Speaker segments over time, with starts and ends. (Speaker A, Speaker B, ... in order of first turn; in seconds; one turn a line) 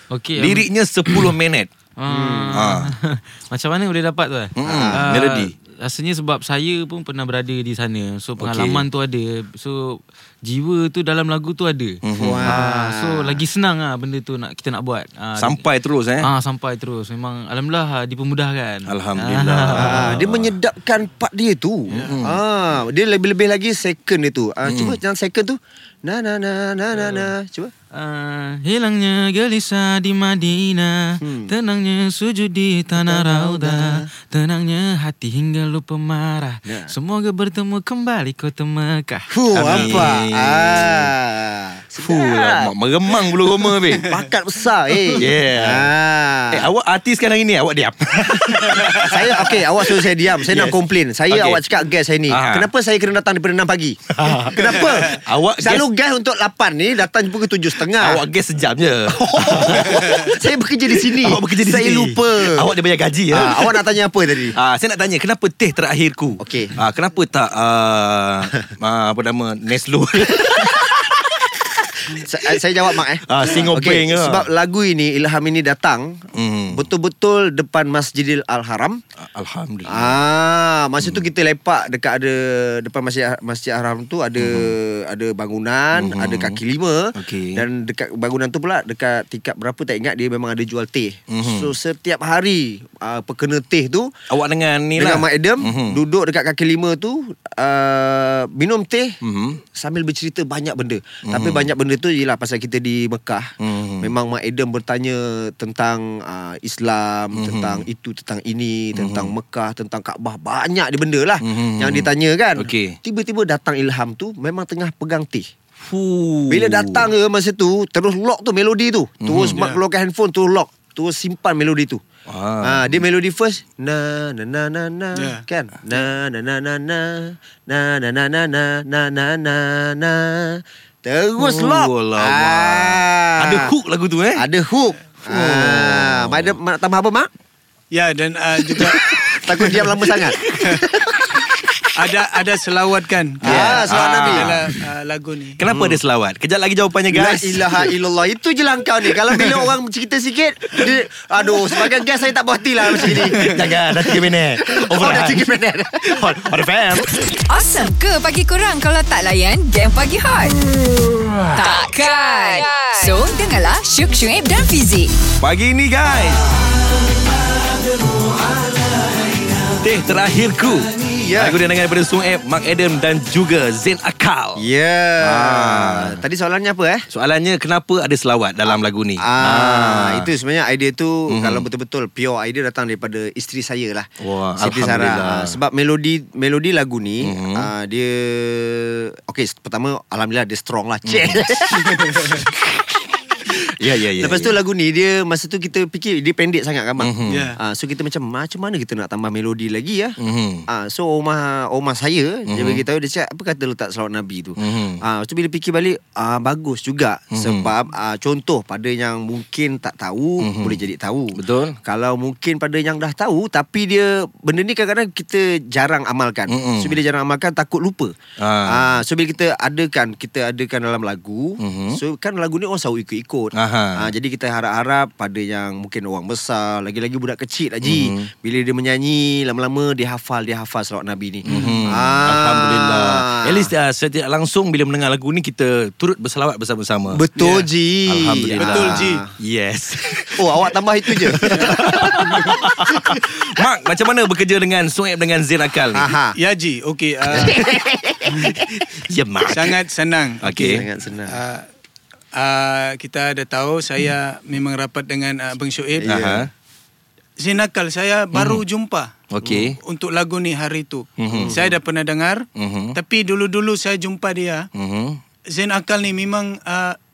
Speaker A: 0.1-0.7
Speaker B: 0.4-1.7
Speaker A: 2.0-15.6
Speaker C: 2.1-2.6
Speaker B: 2.5-2.9
Speaker B: 4.6-5.5
Speaker C: 4.6-5.1
Speaker B: 8.4-8.8
Speaker B: 12.0-12.6
Speaker C: 12.2-13.4
Speaker B: 15.4-16.3
Speaker A: 16.2-20.1
Speaker B: 18.9-20.6
Speaker C: 19.7-27.7
Speaker B: 21.9-22.4
Speaker B: 24.7-25.0
Speaker A: 27.9-39.9
Speaker C: 31.2-31.5
Speaker C: 33.0-34.1
Speaker C: 36.7-36.9
Speaker C: 39.3-42.7
Speaker B: 39.5-41.1
Speaker B: 42.0-44.1
Speaker C: 43.3-46.7
Speaker B: 45.1-45.9
Speaker B: 46.5-50.8
Speaker C: 49.0-58.2
Speaker B: 51.3-51.6
Speaker B: 52.3-52.7
Speaker B: 54.1-55.9
Speaker B: 58.0-60.4
Speaker C: 59.1-62.7
Speaker D: 59.9-60.3
Speaker B: 60.9-63.7
Speaker C: 63.3-64.6
Speaker B: 64.5-71.2
Speaker C: 66.4-66.7
Speaker C: 70.4-71.1
Speaker C: 72.1-79.0
Speaker B: 73.3-74.5
Speaker B: 76.3-76.8
Speaker B: 79.2-80.2
Speaker C: 79.9-94.1
Speaker B: 84.4-84.8
Speaker B: 85.9-86.6
Speaker B: 87.2-87.6
Speaker B: 91.3-91.7
Speaker B: 94.3-96.0
Speaker C: 95.0-99.2
Speaker B: 99.2-99.6
Speaker C: 99.8-115.5
Speaker B: 101.3-101.7
Speaker B: 103.6-104.1
Speaker B: 107.3-107.8
Speaker B: 109.0-109.3
Speaker B: 111.4-113.0
Speaker B: 115.8-117.1
Speaker C: 116.5-122.0
Speaker B: 119.2-119.7
Speaker D: 119.5-119.8
Speaker B: 122.3-123.0
Speaker C: 122.6-133.7
Speaker D: 125.2-125.4
Speaker B: 131.4-134.4
Speaker C: 134.3-137.3
Speaker B: 135.3-136.5
Speaker D: 137.9-139.8
Speaker C: 138.7-141.9
Speaker D: 140.5-140.8
Speaker D: 141.9-145.6
Speaker C: 143.4-144.6
Speaker B: 143.5-144.7
Speaker B: 145.6-147.9
Speaker C: 145.7-146.0
Speaker C: 147.1-153.6
Speaker B: 153.1-155.5
Speaker C: 154.6-156.3
Speaker B: 156.0-157.4
Speaker E: 157.6-160.6
Speaker E: 161.8-165.1
Speaker B: 165.4-166.5
Speaker B: 169.8-174.7
Speaker C: 171.0-171.6
Speaker C: 174.6-177.1
Speaker B: 175.2-176.2
Speaker B: 177.1-180.3
Speaker C: 179.2-192.9
Speaker B: 181.3-181.7
Speaker B: 184.2-185.6
Speaker B: 187.2-187.7
Speaker B: 191.1-191.5
Speaker D: 191.7-192.4
Speaker B: 193.6-194.6
Speaker C: 194.2-218.2
Speaker B: 197.0-197.5
Speaker D: 197.3-197.6
Speaker B: 200.2-200.7
Speaker B: 202.5-202.8
Speaker B: 204.6-205.0
Speaker B: 207.3-207.7
Speaker B: 210.4-210.8
Speaker B: 211.3-211.8
Speaker B: 216.5-217.0
Speaker B: 218.4-219.0
Speaker C: 218.7-233.7
Speaker B: 221.6-222.0
Speaker B: 223.6-224.1
Speaker B: 227.8-228.2
Speaker B: 231.4-237.2
Speaker C: 237.1-239.3
Speaker D: 237.4-237.7
Speaker B: 238.1-240.4
Speaker D: 238.6-239.2
Speaker C: 240.3-243.1
Speaker B: 241.2-246.1
Speaker D: 241.5-242.7
Speaker C: 245.9-246.3
Speaker D: 246.3-247.8
Speaker C: 247.3-248.7
Speaker B: 248.3-249.8
Speaker D: 249.4-250.5
Speaker B: 250.4-250.8
Speaker C: 250.5-251.4
Speaker D: 251.3-251.7
Speaker D: 252.3-256.2
Speaker C: 256.0-256.5
Speaker B: 256.1-256.5
Speaker D: 257.4-264.7
Speaker B: 258.3-258.6
Speaker B: 259.3-259.8
Speaker B: 261.2-261.7
Speaker C: 261.3-261.7
Speaker B: 262.6-263.0
Speaker B: 264.8-265.2
Speaker D: 265.5-267.0